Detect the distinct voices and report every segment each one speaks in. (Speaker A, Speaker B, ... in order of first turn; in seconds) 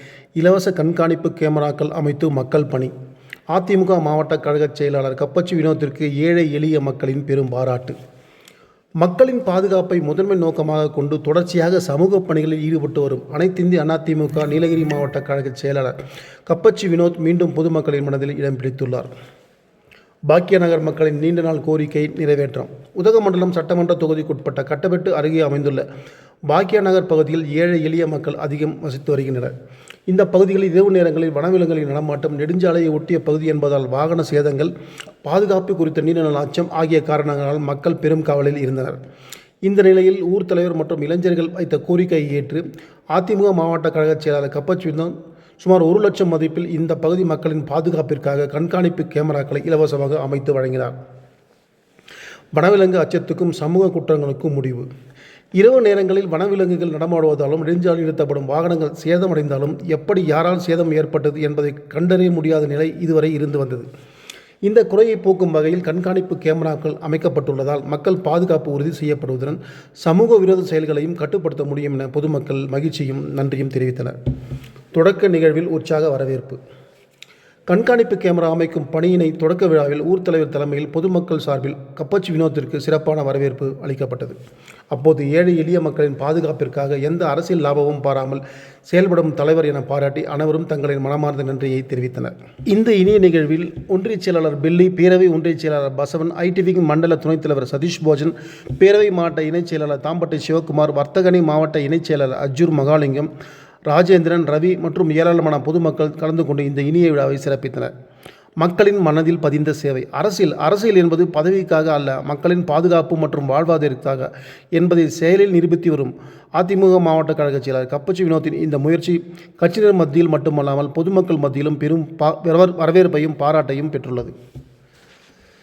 Speaker A: 0.4-2.9, 3.5-8.0, 9.0-16.0, 16.5-19.1, 20.3-25.8, 26.5-29.5, 30.1-34.7, 35.2-39.0, 39.6-50.9, 52.5-54.9, 55.6-63.9, 64.7-74.2, 75.0-76.6, 77.7-84.4, 84.9-103.3, 103.9-107.9, 108.6-124.3